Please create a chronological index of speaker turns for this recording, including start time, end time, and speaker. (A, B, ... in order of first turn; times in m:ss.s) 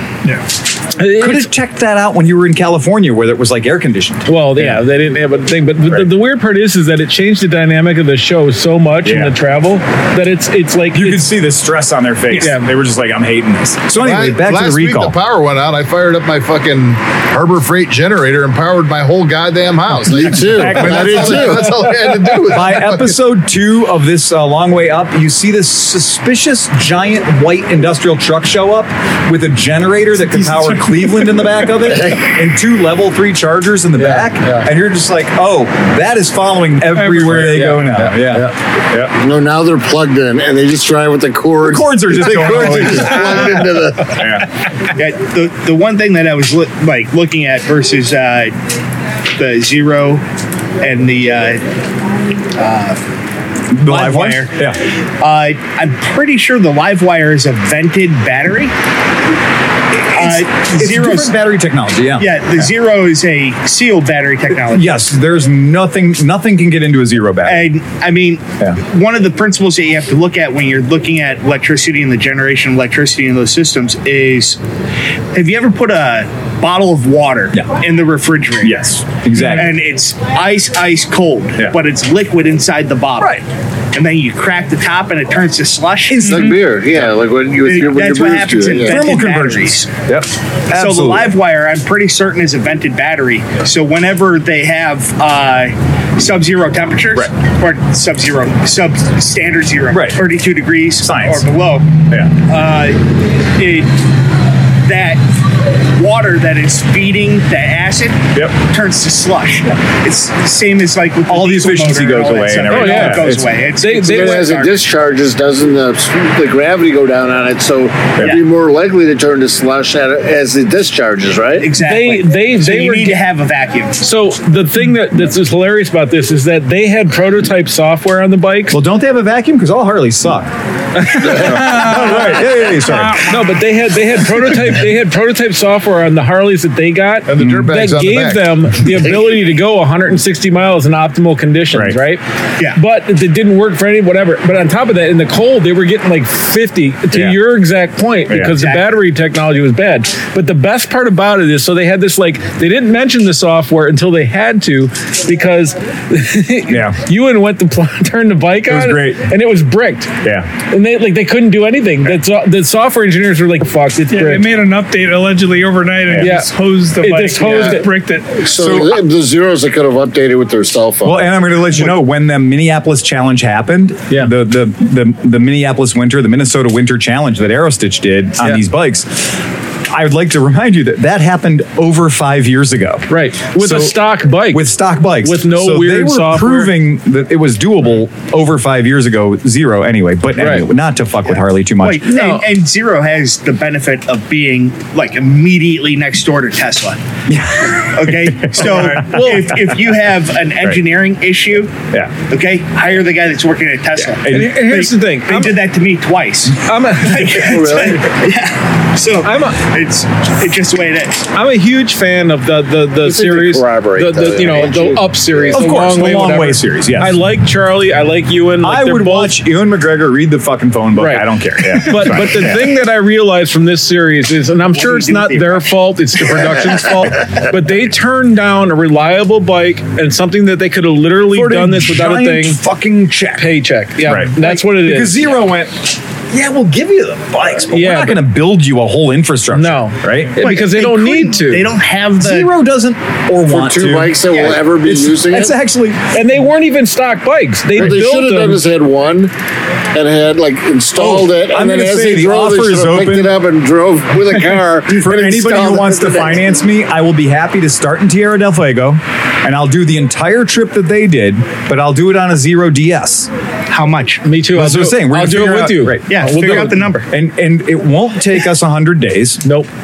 0:01.0-0:01.5 A
0:01.0-0:04.8 B
0:04.2-0:11.3 A
0:09.0-0:09.3 B
0:10.9-0:15.2 B
0:12.3-0:12.7 A
0:14.0-0:23.1 C
0:20.0-0:21.7 D
0:20.4-0:21.6 B
0:22.5-0:39.1 B
0:32.0-0:32.2 D
0:34.0-0:34.7 A
0:37.2-0:38.5 A
0:39.2-0:44.2 D
0:41.6-0:44.5 B
0:44.9-0:48.5 E
0:49.4-0:50.2 E
0:50.8-0:51.6 E
0:52.5-0:53.0 E
0:53.7-0:54.8 B
0:53.8-0:54.6 E
0:55.2-0:58.7 E
1:00.1-1:01.3 E
1:00.1-1:02.4 B
1:02.2-1:05.0 E
1:04.7-1:07.7 B
1:07.4-1:14.6 E
1:15.3-1:18.9 E
1:18.6-1:19.7 B
1:19.5-1:26.3 E
1:26.1-1:26.6 B
1:26.2-1:29.0 D
1:27.6-1:29.9 E
1:28.8-1:31.3 B
1:30.7-1:41.9 E
1:39.9-1:40.2 B
1:41.0-1:41.5 B
1:42.4-1:44.0 E
1:44.8-1:45.2 E
1:45.9-1:54.8 E
1:51.3-1:53.5 B
1:52.7-1:54.5 A
1:54.0-2:01.7 D
2:01.6-2:04.0 E
2:01.8-2:03.2 A
2:04.0-2:08.8 A
2:08.7-2:10.5 B
2:11.1-2:11.5 A
2:11.2-2:13.2 B
2:11.6-2:12.0 F
2:13.2-2:22.2 A
2:17.3-2:18.6 C
2:17.4-2:17.7 B
2:21.7-2:22.0 B
2:22.7-2:40.1 A
2:27.1-2:27.4 B
2:28.3-2:28.5 B
2:28.6-2:28.9 E
2:36.7-2:37.0 B
2:38.6-2:39.2 B
2:40.2-2:40.5 B
2:40.7-2:44.5 A
2:44.1-2:48.4 F
2:46.2-2:47.9 A
2:48.4-2:51.3 D
2:48.5-2:49.0 B
2:51.0-3:12.1 B
3:03.1-3:04.7 A
3:05.2-3:06.8 A
3:10.4-3:10.7 A
3:11.8-3:17.0 E
3:12.1-3:12.4 A
3:17.3-3:19.7 B
3:17.8-3:21.7 E
3:18.6-3:19.5 A
3:22.3-3:31.2 E
3:24.2-3:24.8 B
3:24.3-3:25.5 A
3:26.6-3:27.8 A
3:27.4-3:28.1 D
3:29.2-3:29.6 A
3:31.3-3:39.4 A
3:33.0-3:35.6 D
3:35.5-3:37.2 B
3:38.6-3:42.7 B
3:41.0-3:52.6 A
3:44.7-3:45.7 E
3:51.3-4:00.3 B
3:53.4-3:55.2 A
3:57.7-3:58.2 A
3:59.5-4:01.6 A
4:00.4-4:02.5 E
4:02.2-4:06.0 B
4:03.5-4:05.5 D
4:04.3-4:04.6 E
4:06.1-4:08.6 A
4:07.7-4:09.3 D
4:09.9-4:16.4 D
4:10.9-4:13.3 B
4:14.5-4:23.3 B
4:23.7-4:24.2 E
4:24.2-4:26.8 A
4:24.5-4:29.4 B
4:26.1-4:27.1 E